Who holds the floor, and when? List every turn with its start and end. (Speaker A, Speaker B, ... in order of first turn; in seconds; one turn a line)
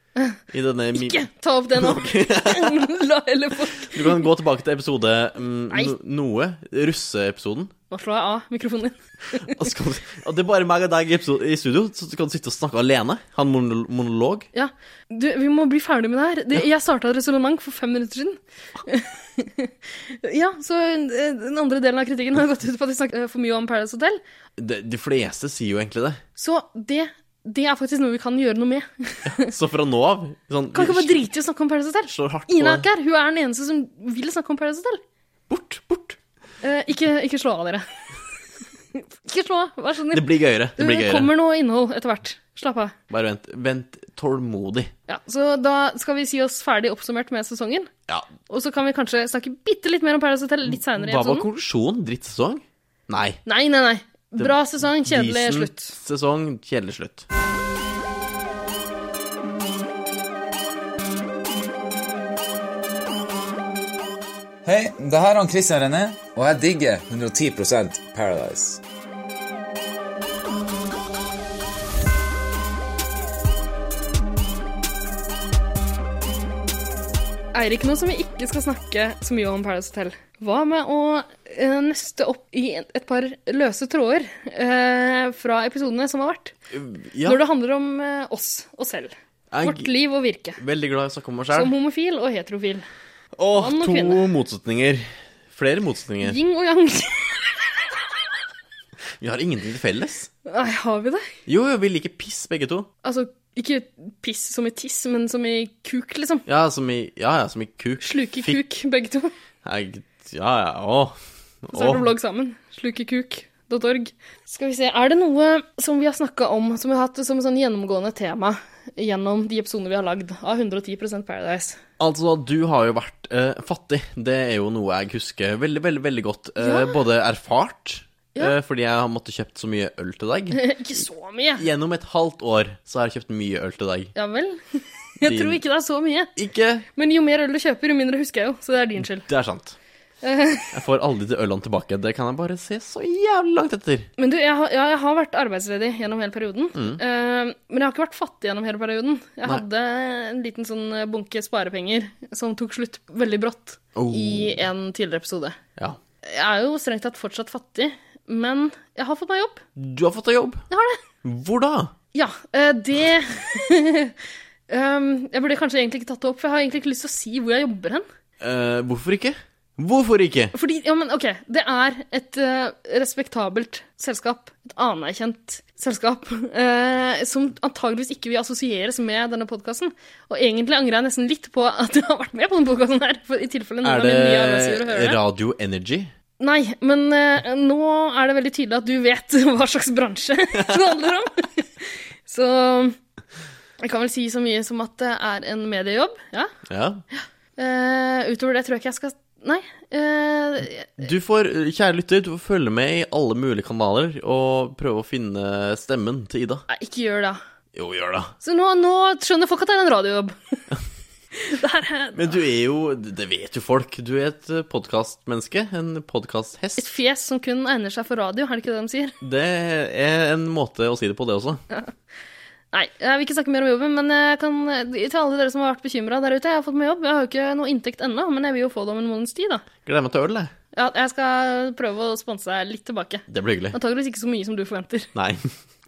Speaker A: 0.5-2.8
Speaker B: 0.9-4.2
Speaker A: 3.8-7.7
Speaker B: 7.9-9.7
Speaker A: 9.4-14.5
Speaker B: 14.5-24.2
Speaker A: 24.6-26.2
Speaker B: 26.4-29.5
Speaker A: 29.2-31.2
Speaker B: 30.7-35.0
Speaker A: 32.1-32.9
Speaker A: 35.5-36.2
Speaker B: 36.6-37.8
Speaker B: 38.9-42.9
Speaker A: 40.1-41.3
Speaker A: 43.1-44.9
Speaker B: 45.1-47.9
Speaker B: 48.5-51.5
Speaker A: 50.7-53.4
Speaker B: 53.5-56.0
Speaker A: 54.4-57.3
Speaker C: 64.6-68.8
Speaker B: 77.5-86.5
Speaker A: 86.7-87.4
Speaker B: 87.2-90.6
Speaker A: 89.5-89.9
Speaker A: 90.6-91.7
Speaker B: 91.5-92.8
Speaker A: 93.3-96.4
Speaker B: 93.5-94.2
Speaker B: 96.2-97.7
Speaker A: 99.2-100.3
Speaker B: 100.5-101.3
Speaker A: 101.5-102.9
Speaker B: 103.0-106.4
Speaker A: 106.5-108.6
Speaker B: 108.0-109.3
Speaker A: 109.6-112.1
Speaker B: 111.7-121.8
Speaker A: 122.0-131.0
Speaker B: 126.6-127.0
Speaker B: 130.5-131.6
Speaker A: 131.6-134.1
Speaker B: 134.1-136.3
Speaker A: 135.2-135.6
Speaker A: 136.3-136.8
Speaker B: 136.9-139.3
Speaker A: 139.2-139.8
Speaker B: 140.2-140.7
Speaker A: 140.7-144.1
Speaker B: 144.2-155.6
Speaker A: 146.7-147.0
Speaker A: 153.9-154.6
Speaker B: 156.2-159.6
Speaker A: 159.8-160.6
Speaker B: 160.7-161.0
Speaker A: 161.2-161.9
Speaker B: 162.1-164.1
Speaker B: 164.7-168.1
Speaker A: 168.4-170.5
Speaker B: 170.5-185.2
Speaker A: 183.8-186.1
Speaker B: 186.4-192.9
Speaker B: 193.8-196.5
Speaker A: 196.7-197.0
Speaker B: 197.6-201.0
Speaker A: 201.0-206.6
Speaker B: 206.7-207.4
Speaker A: 207.8-208.3
Speaker B: 208.4-210.6
Speaker B: 211.3-212.4
Speaker A: 212.1-216.8
Speaker B: 216.8-219.1
Speaker A: 219.2-221.6
Speaker B: 222.7-229.6
Speaker A: 229.8-230.5
Speaker B: 230.7-235.1
Speaker A: 233.3-233.8
Speaker A: 235.1-235.5